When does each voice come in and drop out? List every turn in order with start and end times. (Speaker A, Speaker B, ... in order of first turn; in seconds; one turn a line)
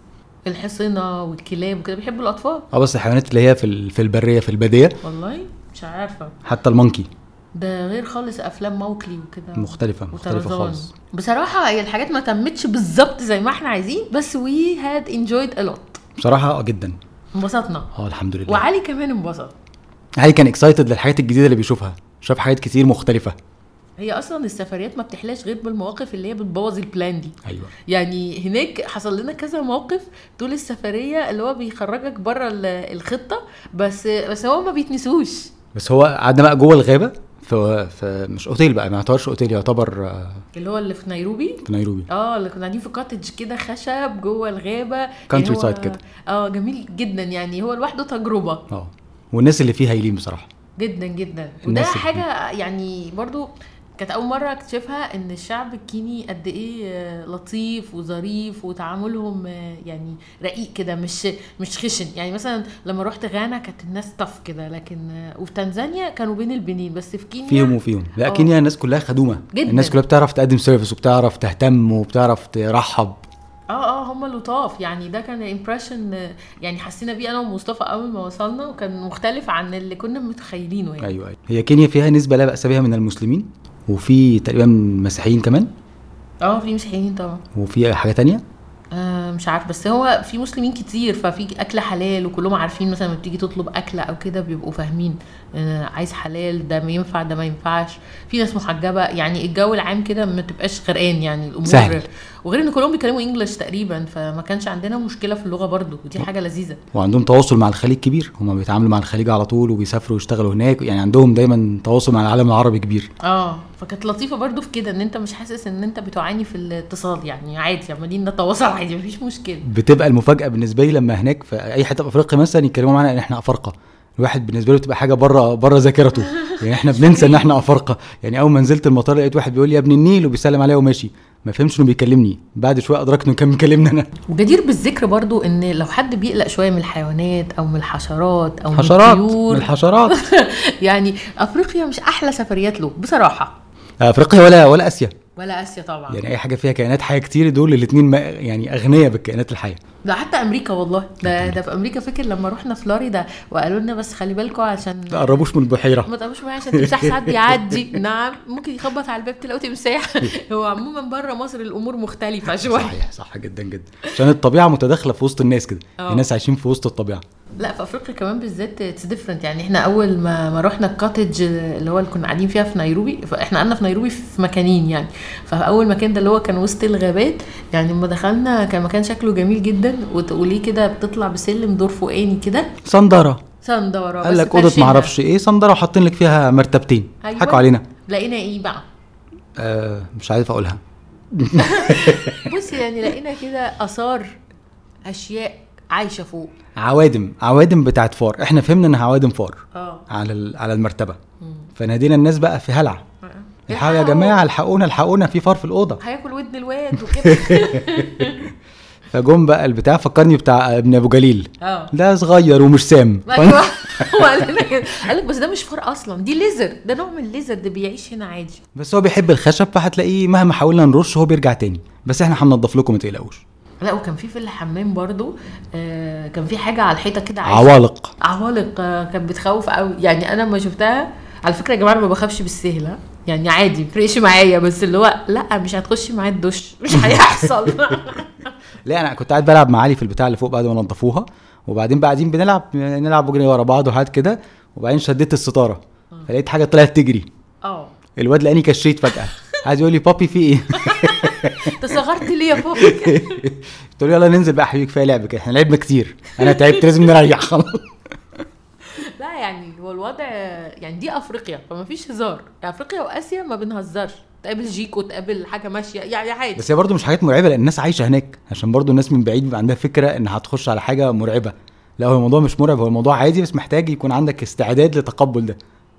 Speaker A: 0.4-2.6
Speaker B: 2.7-5.0
Speaker A: 5.0-6.4
Speaker B: 6.4-7.1
Speaker A: 7.5-16.0
Speaker B: 9.6-10.9
Speaker B: 16.2-17.0
Speaker A: 17.3-17.9
Speaker B: 17.9-18.6
Speaker A: 18.4-19.5
Speaker B: 20.2-23.3
Speaker A: 24.0-27.3
Speaker B: 27.4-27.7
Speaker A: 27.9-35.5
Speaker B: 35.7-40.4
Speaker A: 40.5-48.6
Speaker B: 41.6-42.1
Speaker B: 45.3-46.0
Speaker B: 48.7-50.5
Speaker A: 50.8-68.5
Speaker B: 51.6-52.2
Speaker B: 67.5-73.2
Speaker A: 69.5-70.0
Speaker A: 73.7-81.2
Speaker B: 81.0-85.7
Speaker A: 86.4-87.4
Speaker B: 87.5-88.4
Speaker A: 88.9-106.8
Speaker B: 101.7-102.0
Speaker B: 106.9-113.1
Speaker A: 113.2-119.7
Speaker B: 119.6-134.1
Speaker A: 126.2-127.5
Speaker A: 134.3-143.5
Speaker B: 138.7-140.2
Speaker B: 144.0-145.1
Speaker A: 145.4-146.2
Speaker B: 146.1-149.8
Speaker A: 150.0-155.5
Speaker B: 151.2-151.6
Speaker B: 155.1-156.1
Speaker A: 156.0-163.0
Speaker B: 156.7-157.9
Speaker B: 162.5-167.2
Speaker A: 166.0-166.2
Speaker A: 167.6-182.8
Speaker B: 182.8-183.4
Speaker A: 183.6-185.1
Speaker B: 184.2-187.8
Speaker A: 187.2-188.8
Speaker B: 189.6-190.8
Speaker B: 191.3-192.5
Speaker A: 191.5-194.4
Speaker A: 195.1-196.5
Speaker B: 196.8-201.2
Speaker A: 199.7-200.1
Speaker A: 201.4-201.7
Speaker B: 201.8-203.0
Speaker A: 203.2-204.4
Speaker B: 203.7-206.0
Speaker A: 206.0-208.5
Speaker B: 207.1-208.5
Speaker B: 209.1-214.3
Speaker A: 211.6-211.9
Speaker A: 213.2-218.6
Speaker B: 218.7-223.4
Speaker A: 223.8-238.5
Speaker B: 227.4-228.1
Speaker B: 236.9-238.0
Speaker B: 238.8-247.3
Speaker A: 247.6-247.9
Speaker B: 248.2-251.8
Speaker A: 250.7-253.4
Speaker B: 252.6-257.9
Speaker A: 256.4-256.9
Speaker A: 258.9-266.7
Speaker B: 266.6-275.6